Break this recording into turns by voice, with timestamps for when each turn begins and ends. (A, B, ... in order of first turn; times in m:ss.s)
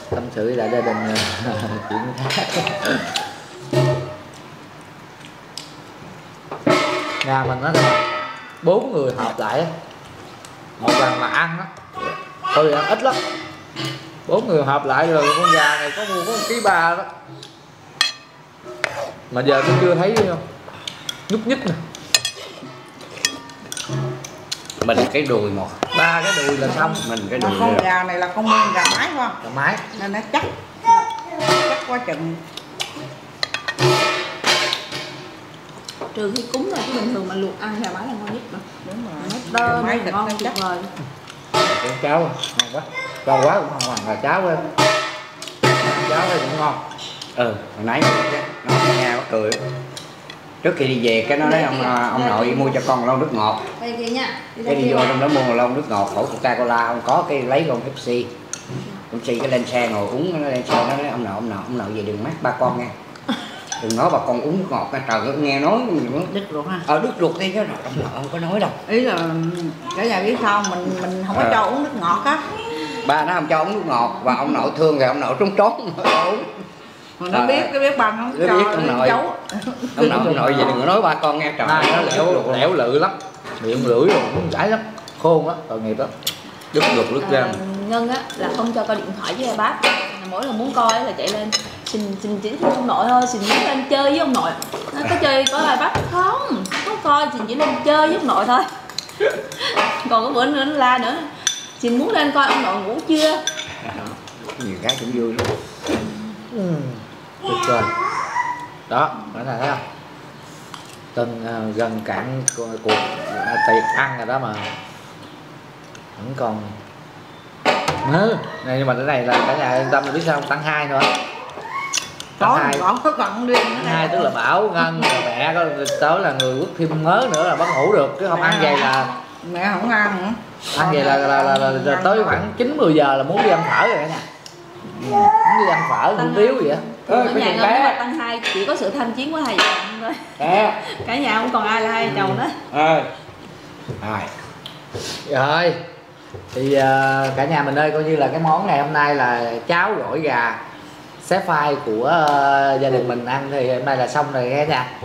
0:00.1-0:03.2 A
0:07.2-0:08.0 A
0:08.6-0:09.7 A
0:10.8-0:13.2 A
0:14.2-0:17.1 A
0:19.3-0:20.4 A
0:21.3-0:21.8 A
0:24.8-0:25.8 B
0:25.9-0:27.0 A
0:26.6-0:29.4 C
0:27.0-0:27.8 B
0:29.4-0:29.8 A
0:29.9-0:30.5 C
0:31.3-0:32.4 C
0:36.1-0:38.6 D
0:38.8-0:40.6 C
0:39.2-0:40.9 D
0:41.6-0:44.7 A
0:45.8-0:46.8 A
0:47.4-0:49.6 B
0:50.6-0:53.7 B
0:51.4-0:52.8 D
0:53.8-0:55.2 D
0:54.6-0:58.3 B
0:59.1-1:02.9 B
1:03.8-1:06.3 B
1:06.3-1:06.8 C
1:06.8-1:08.8 B
1:08.8-1:12.4 C
1:11.3-1:11.6 B
1:13.0-1:16.5 B
1:17.2-1:20.1 C
1:17.3-1:17.7 B
1:18.3-1:19.2 B
1:20.0-1:22.7 B
1:20.0-1:20.8 A
1:21.6-1:26.1 A
1:26.7-1:27.6 B
1:27.2-1:38.7 D
1:39.4-1:43.4 D
1:44.6-1:45.5 B
1:46.5-1:47.9 A
1:48.9-1:49.8 A
1:51.1-1:54.7 A
1:56.2-1:56.7 A
1:58.0-2:01.1 A
2:02.4-2:04.3 C
2:02.4-2:02.8 A
2:03.8-2:09.1 A
2:08.3-2:12.4 C
2:10.7-2:14.2 A
2:15.0-2:16.8 A
2:16.1-2:22.6 D
2:17.1-2:18.0 B
2:20.4-2:20.8 B
2:22.1-2:22.4 A
2:22.7-2:23.1 B
2:24.0-2:24.3 B
2:25.2-2:25.8 A
2:26.5-2:30.6 A
2:31.2-2:34.9 A